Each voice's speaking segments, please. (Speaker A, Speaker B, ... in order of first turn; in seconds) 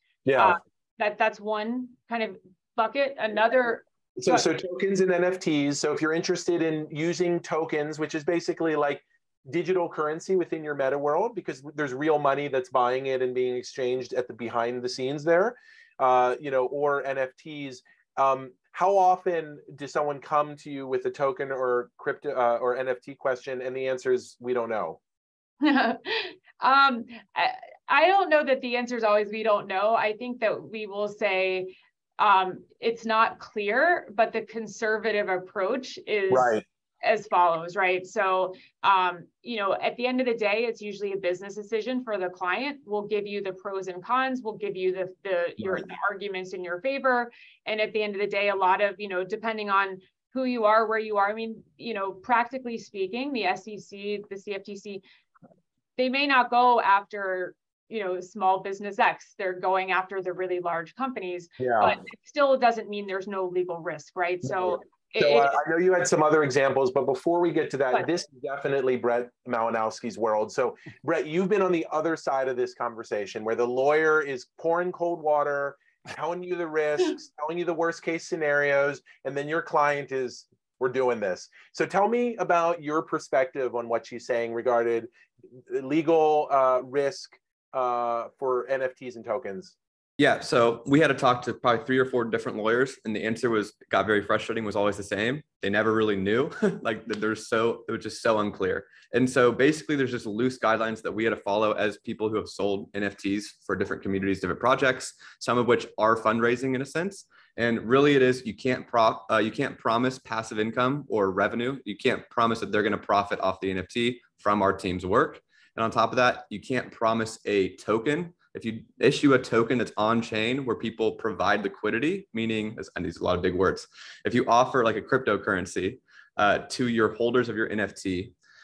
Speaker A: 0.3-0.6, 4.2-25.0, 36.3-36.6, 61.6-62.0, 64.4-85.1, 85.7-89.8
Speaker B: 0.4-4.5, 25.6-55.0, 56.0-65.5
Speaker C: 90.2-128.3